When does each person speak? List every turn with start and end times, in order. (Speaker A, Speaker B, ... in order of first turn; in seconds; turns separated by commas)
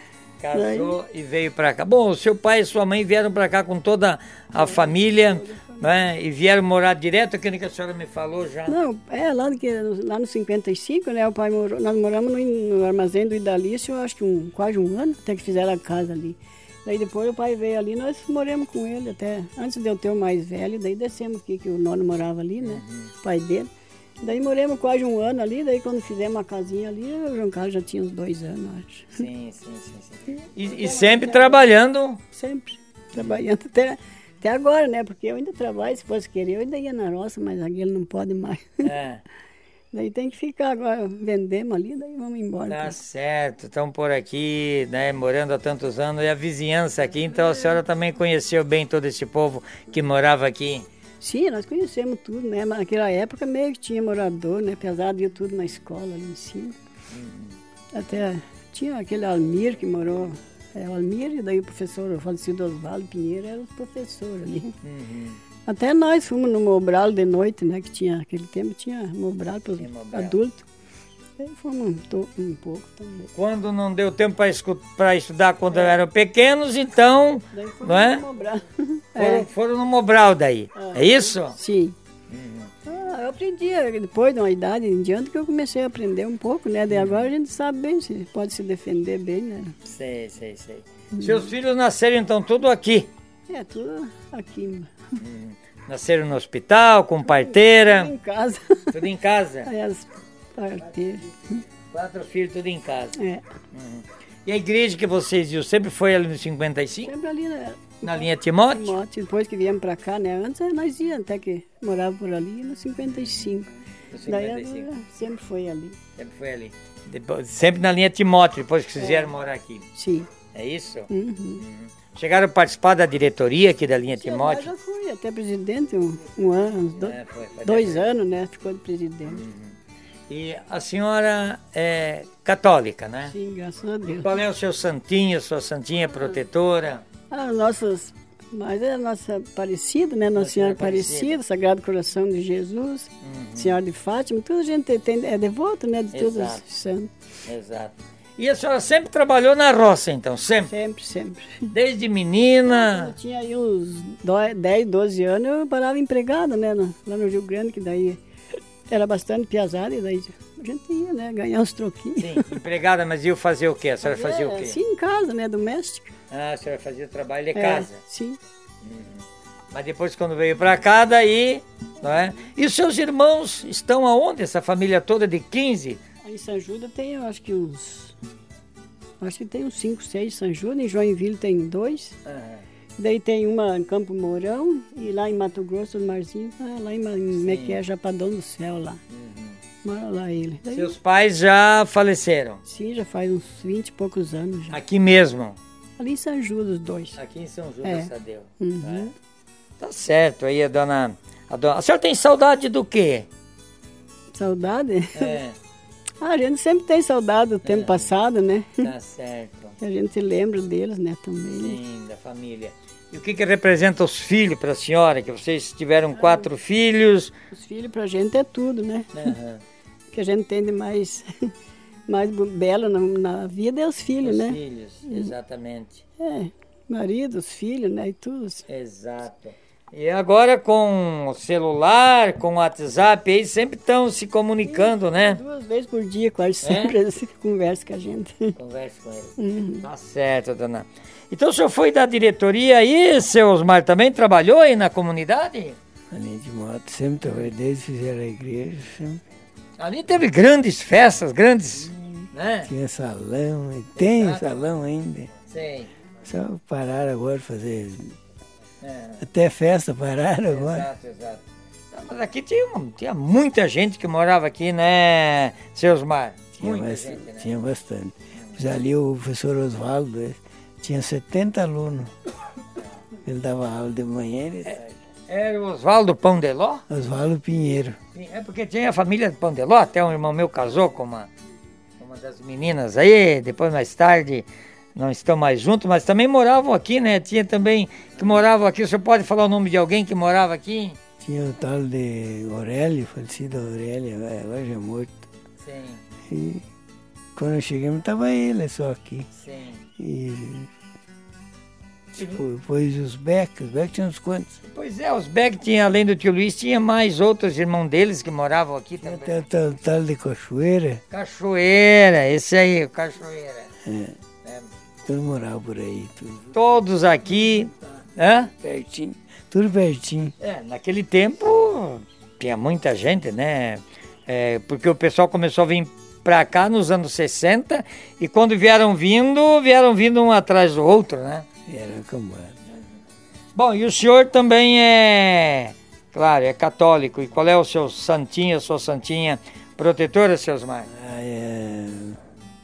Speaker A: 0.4-8.8, Speaker B: 0.6-1.0, Speaker B: 4.5-5.8, Speaker B: 8.7-29.2, Speaker A: 22.6-23.1, Speaker A: 29.2-32.2, Speaker B: 30.6-31.7, Speaker B: 32.3-38.9, Speaker A: 38.8-39.2, Speaker B: 39.9-43.0, Speaker A: 42.7-50.9, Speaker B: 51.2-56.8, Speaker A: 57.1-57.6, Speaker B: 57.9-64.8, Speaker A: 64.8-65.4, Speaker B: 65.7-70.7, Speaker A: 69.8-70.3, Speaker B: 71.4-73.3, Speaker A: 73.3-78.2, Speaker B: 77.5-79.5, Speaker A: 79.2-81.6, Speaker B: 80.8-82.0, Speaker A: 82.3-82.7, Speaker B: 82.9-89.8, Speaker A: 86.9-87.3, Speaker A: 89.9-93.1, Speaker B: 91.2-91.4, Speaker B: 93.5-94.9, Speaker A: 95.2-98.1, Speaker B: 97.2-98.8, Speaker A: 98.9-99.7, Speaker B: 99.7-101.6, Speaker A: 101.9-103.2, Speaker B: 103.2-103.4, Speaker A: 103.7-107.1, Speaker B: 107.0-113.7, Speaker A: 108.0-109.0, Speaker A: 113.1-113.5, Speaker A: 114.1-114.9, Speaker B: 114.3-116.0, Speaker A: 116.2-119.9, Speaker B: 119.0-119.3, Speaker B: 120.0-120.3, Speaker A: 120.5-121.1, Speaker B: 121.1-121.6, Speaker A: 121.6-124.7, Speaker B: 124.2-129.4, Speaker A: 127.0-128.1, Speaker A: 129.3-129.7, Speaker A: 130.3-133.3, Speaker B: 133.3-134.4, Speaker A: 134.1-137.0, Speaker B: 137.3-147.1, Speaker A: 140.3-141.4, Speaker A: 143.2-143.8, Speaker A: 146.1-146.6, Speaker A: 147.5-150.7, Speaker B: 150.7-151.7, Speaker A: 151.7-153.1, Speaker B: 152.7-158.2, Speaker B: 158.9-162.5, Speaker A: 162.2-164.8, Speaker B: 164.0-166.2, Speaker A: 166.3-168.0, Speaker B: 167.6-168.4, Speaker A: 168.8-169.2, Speaker A: 169.7-176.0, Speaker B: 176.2-178.2, Speaker B: 179.2-182.2, Speaker A: 182.3-182.6, Speaker B: 183.0-189.0, Speaker A: 187.4-187.8, Speaker A: 189.1-189.6, Speaker B: 189.8-190.9, Speaker A: 190.7-192.6, Speaker B: 192.7-194.8, Speaker A: 194.7-195.6, Speaker B: 196.0-197.2, Speaker A: 197.2-199.1, Speaker B: 197.8-199.1, Speaker A: 199.8-203.3, Speaker B: 204.3-205.4, Speaker A: 205.2-205.6, Speaker B: 206.2-208.9, Speaker A: 207.6-208.1, Speaker A: 208.8-209.8, Speaker B: 209.8-211.8, Speaker A: 211.6-217.3, Speaker B: 216.1-216.5, Speaker B: 217.5-219.3, Speaker A: 219.2-219.6, Speaker B: 220.1-221.5, Speaker B: 222.1-225.3, Speaker A: 224.2-226.0, Speaker B: 226.2-228.7, Speaker A: 228.7-235.4, Speaker B: 234.7-238.5, Speaker A: 236.6-236.9, Speaker A: 238.6-245.8, Speaker B: 239.4-239.9, Speaker C: 246.1-249.2, Speaker A: 249.8-252.7, Speaker C: 251.8-255.3, Speaker A: 254.0-254.6, Speaker A: 255.5-255.9, Speaker C: 256.2-258.2, Speaker A: 258.8-259.2, Speaker C: 259.2-260.9, Speaker A: 260.5-267.5, Speaker C: 266.6-272.1, Speaker C: 273.2-274.8, Speaker A: 274.7-276.8, Speaker C: 276.9-278.0, Speaker A: 278.1-281.3, Speaker A: 282.0-291.0, Speaker C: 291.2-295.3, Speaker A: 295.6-296.0, Speaker C: 296.3-296.6, Speaker C: 297.4-299.3, Speaker A: 299.4-299.8, Speaker C: 300.0-300.7, Speaker C: 302.2-304.6, Speaker A: 302.2-302.4, Speaker A: 304.7-309.4, Speaker C: 309.0-311.0, Speaker A: 311.1-313.7, Speaker C: 313.9-314.2, Speaker A: 314.4-314.7, Speaker C: 315.1-316.5, Speaker A: 316.5-318.5, Speaker C: 318.6-320.3, Speaker A: 320.4-331.4, Speaker C: 331.7-332.6, Speaker A: 333.6-340.9, Speaker C: 340.9-342.2